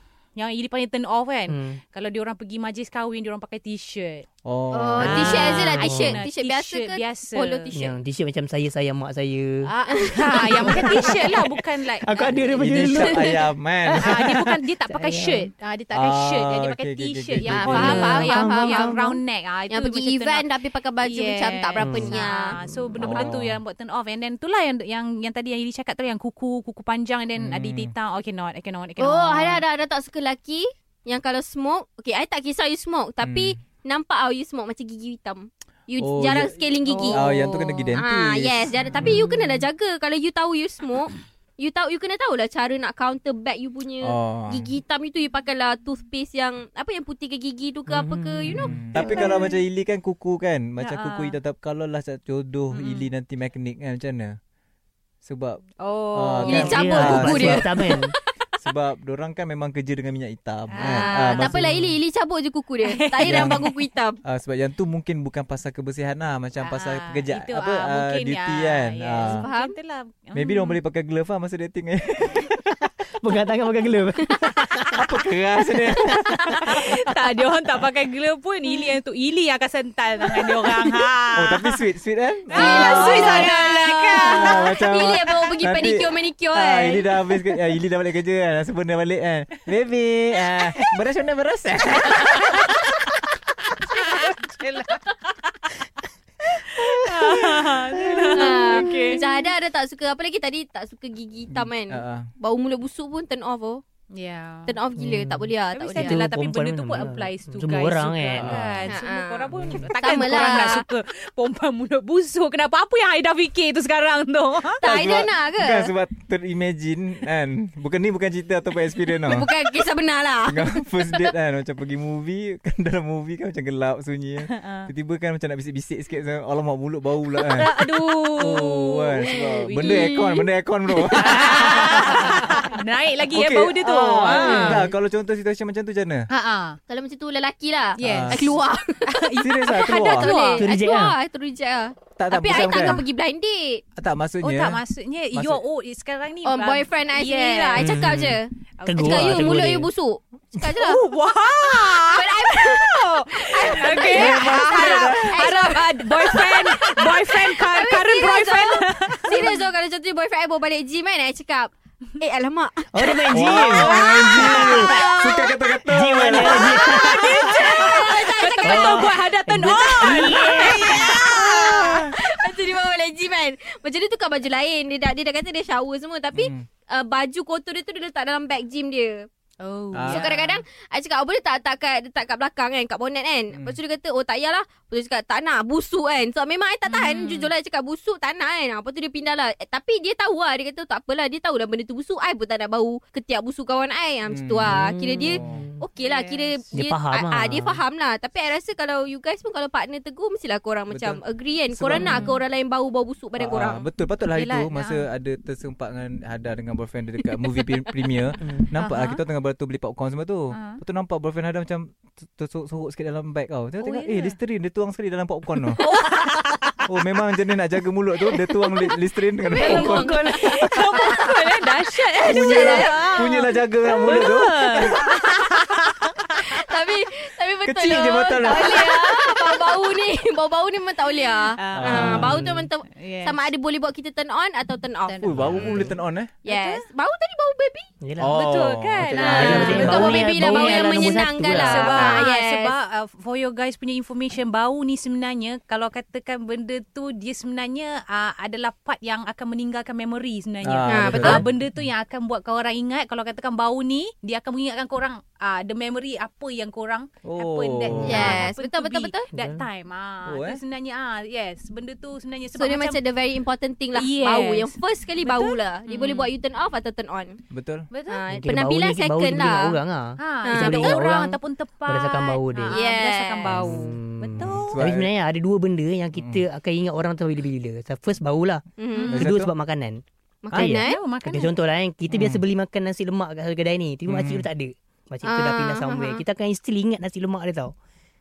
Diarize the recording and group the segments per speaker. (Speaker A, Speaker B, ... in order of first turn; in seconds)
Speaker A: 0.3-4.2, 5.0-7.7, 9.6-13.1, 14.0-29.6, 36.9-37.3, 49.0-49.5, 50.8-51.4, 52.7-53.1, 55.8-57.6, 60.7-61.5, 62.8-63.8, 66.6-70.8, 76.0-81.8, 82.5-84.7, 93.9-95.7, 96.5-99.2, 104.1-104.8, 105.7-114.8, 124.4-124.9, 127.4-129.9, 131.1-134.8, 136.3-136.8, 138.0-138.5, 139.1-140.6, 144.4-148.0, 148.8-149.5, 150.8-159.7, 164.0-165.0, 166.3-171.9, 179.6-180.6, 186.8-187.5, 196.0-196.7, 201.9-202.4, 204.3-205.1, 208.8-209.2, 210.5-210.8, 213.8-214.4, 215.8-216.7, 219.6-226.2, 231.5-232.3, 232.9-233.5, 235.0-236.8, 238.3-263.0, 263.9-266.3, 267.9-268.2, 270.2-274.8, 278.9-279.3, 280.6-281.6
Speaker B: 1.5-1.8, 7.7-9.7, 10.6-11.4, 12.0-15.5, 17.5-19.2, 21.8-22.2, 47.9-49.4, 56.5-58.1, 61.4-62.0, 73.2-74.7, 97.1-97.4, 98.0-99.2, 105.0-108.6, 134.2-134.9, 140.6-141.2, 147.8-149.9, 162.9-164.6, 165.9-168.1, 168.6-171.0, 194.6-195.8, 196.7-197.8, 208.4-208.7, 219.5-220.5, 235.6-235.9, 238.0-238.3, 239.1-242.1, 257.9-258.3, 259.3-259.6, 268.3-272.8, 273.4-287.7
Speaker C: 4.4-6.2, 12.5-14.4, 15.9-18.2, 23.0-23.6, 27.4-27.9, 33.2-33.5, 36.0-39.3, 44.0-44.7, 48.5-54.4, 55.2-55.6, 56.1-57.7, 58.6-61.6, 63.2-63.7, 64.2-69.5, 70.3-72.8, 74.9-77.0, 81.3-83.5, 84.2-92.9, 101.5-102.3, 108.3-108.9, 109.5-109.8, 114.8-119.5, 120.5-132.4, 133.3-136.3, 138.0-138.5, 139.4-140.3, 142.2-143.1, 143.9-144.8, 145.3-145.6, 154.0-155.4, 163.3-166.8, 171.5-172.1, 176.3-176.7, 179.9-180.3, 183.5-183.8, 194.3-195.7, 200.9-201.2, 201.7-202.3, 203.4-215.8, 216.8-220.9, 222.2-225.0, 227.6-229.1, 231.7-232.7, 235.2-236.3, 238.2-240.2, 250.6-251.7, 257.2-258.5, 260.2-260.6, 267.5-267.9, 274.4-275.1, 276.1-276.4, 279.1-279.5, 282.1-282.4, 284.1-284.5
Speaker D: 4.7-7.9, 9.9-11.1, 17.4-19.0, 19.7-22.6, 29.0-49.0, 56.4-58.2, 60.8-64.2, 69.2-69.7, 82.5-87.2, 98.3-103.8, 104.7-106.2, 108.8-110.8, 114.8-115.9, 119.2-120.8, 129.6-130.5, 131.9-132.2, 136.9-143.8, 146.4-151.0, 151.8-165.6, 166.5-169.1, 169.9-179.3, 180.0-203.9, 219.4-223.2, 224.9-225.3, 226.4-235.2, 236.4-237.9, 239.2-242.7, 250.9-251.4, 258.0-259.2, 262.5-267.4, 268.1-269.8, 270.4-271.0, 272.7-273.6, 278.8-279.1, 280.4-281.0, 285.2-286.2